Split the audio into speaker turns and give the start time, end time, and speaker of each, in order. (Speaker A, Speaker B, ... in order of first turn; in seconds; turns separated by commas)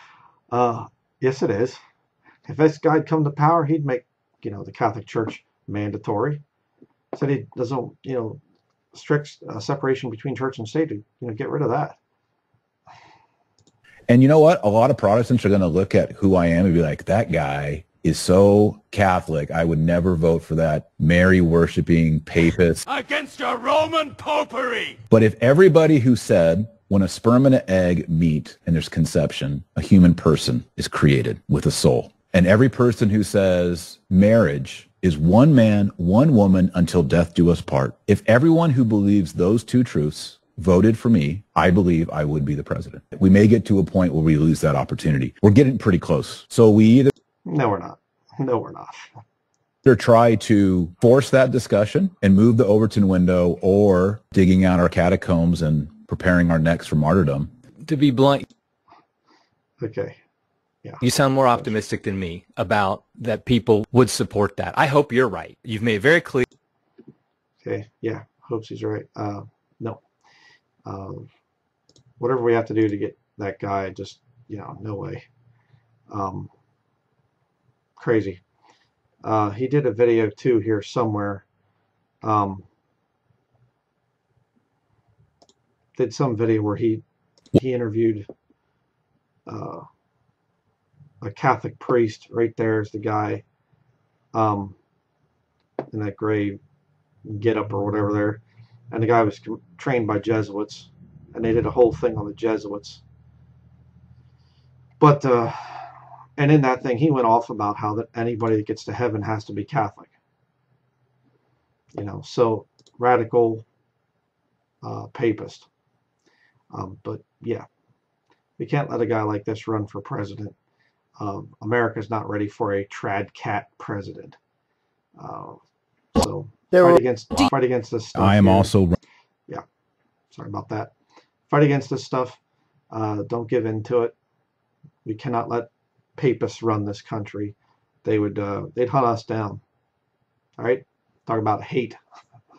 Speaker A: 0.5-1.8, Speaker A: 2.5-6.4, Speaker A: 7.1-8.4, Speaker A: 8.9-12.0, Speaker B: 14.1-22.8, Speaker C: 22.9-25.0, Speaker B: 25.1-47.1, Speaker A: 47.5-49.1, Speaker B: 49.8-57.5, Speaker D: 57.8-58.4, Speaker A: 59.8-60.1, Speaker D: 61.0-66.4, Speaker A: 67.6-70.0, Speaker A: 70.8-71.2, Speaker A: 72.2-75.2, Speaker A: 76.1-76.5, Speaker A: 78.0-78.4, Speaker A: 79.2-81.4, Speaker A: 82.2-82.6, Speaker A: 86.0-87.0, Speaker A: 87.5-88.3, Speaker A: 89.5-89.8, Speaker A: 91.2-93.4, Speaker A: 94.3-94.8, Speaker A: 95.9-96.6, Speaker A: 97.2-103.0, Speaker A: 105.0-110.1, Speaker A: 111.9-113.7, Speaker A: 114.8-115.7, Speaker A: 116.7-117.7, Speaker A: 118.6-120.5, Speaker A: 121.2-124.4, Speaker A: 125.2-125.6, Speaker A: 126.1-128.7, Speaker B: 128.2-129.0, Speaker A: 130.3-130.9, Speaker A: 131.5-132.4, Speaker A: 132.9-134.1, Speaker A: 135.0-139.6, Speaker A: 140.6-142.0